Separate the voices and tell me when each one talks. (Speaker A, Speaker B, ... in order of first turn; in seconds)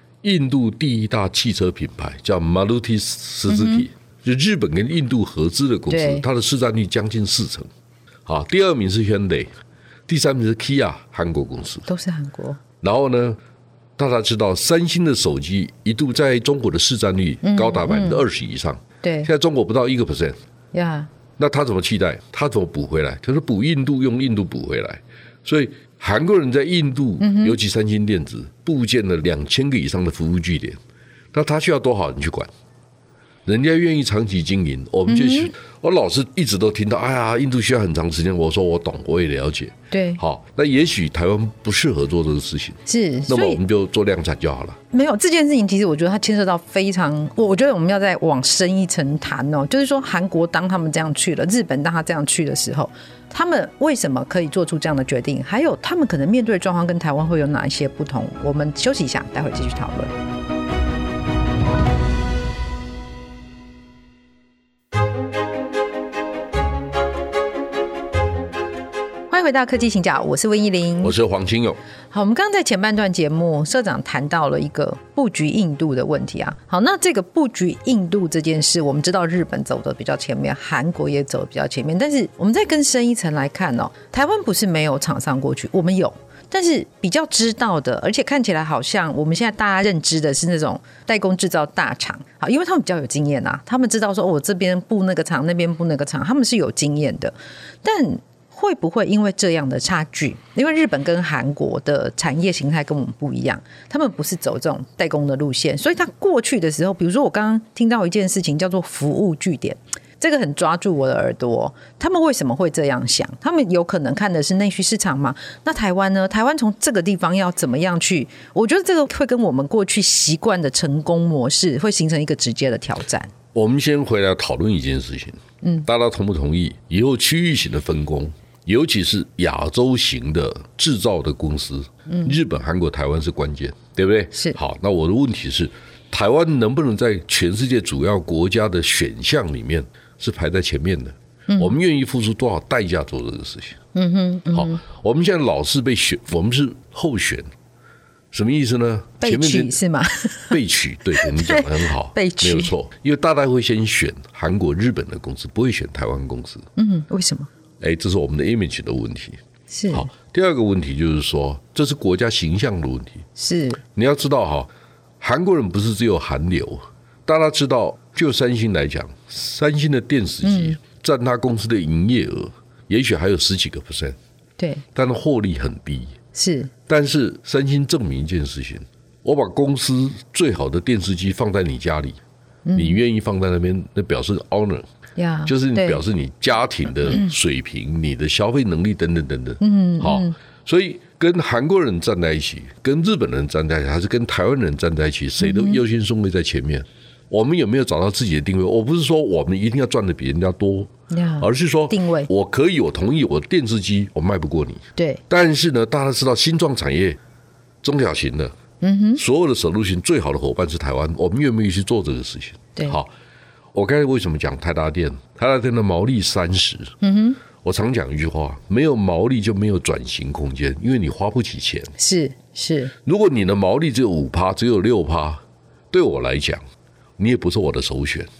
Speaker A: 0.2-7.7, 8.2-9.5, 10.1-11.9, 12.8-13.4, 14.0-20.4, 21.4-30.8, 31.3-32.5, 33.5-44.8, 71.0-71.8, 123.5-143.8, 144.5-147.5, 148.3-149.8, 150.5-156.7, 157.8-159.4, 159.9-163.2, 163.9-164.7, 165.2-174.2, 174.9-176.1, 176.9-182.2, 182.7-184.8, 185.4-207.2, 207.8-208.5, 209.2-213.1, 213.7-216.9, 217.6-221.9, 223.0-226.6, 227.2-228.3
Speaker B: 3.5-3.9, 5.9-6.2, 11.9-12.6, 17.4-18.2, 19.0-19.3, 20.7-21.1, 27.2-27.6, 35.1-35.5, 39.9-40.2, 42.9-43.6, 44.9-60.1, 69.3-71.1, 72.1-123.3, 125.6-125.9, 132.1-132.3, 134.3-134.6, 141.5-141.8, 143.9-144.8, 149.2-150.6, 151.1-152.7, 156.8-157.5, 159.7-160.1, 163.4-163.8, 170.4-170.8, 174.6-174.8, 176.3-176.7, 182.7-183.0, 185.2-186.0, 189.6-190.3, 195.4-195.8, 201.1-202.3, 208.8-209.2, 217.0-217.4, 222.0-222.9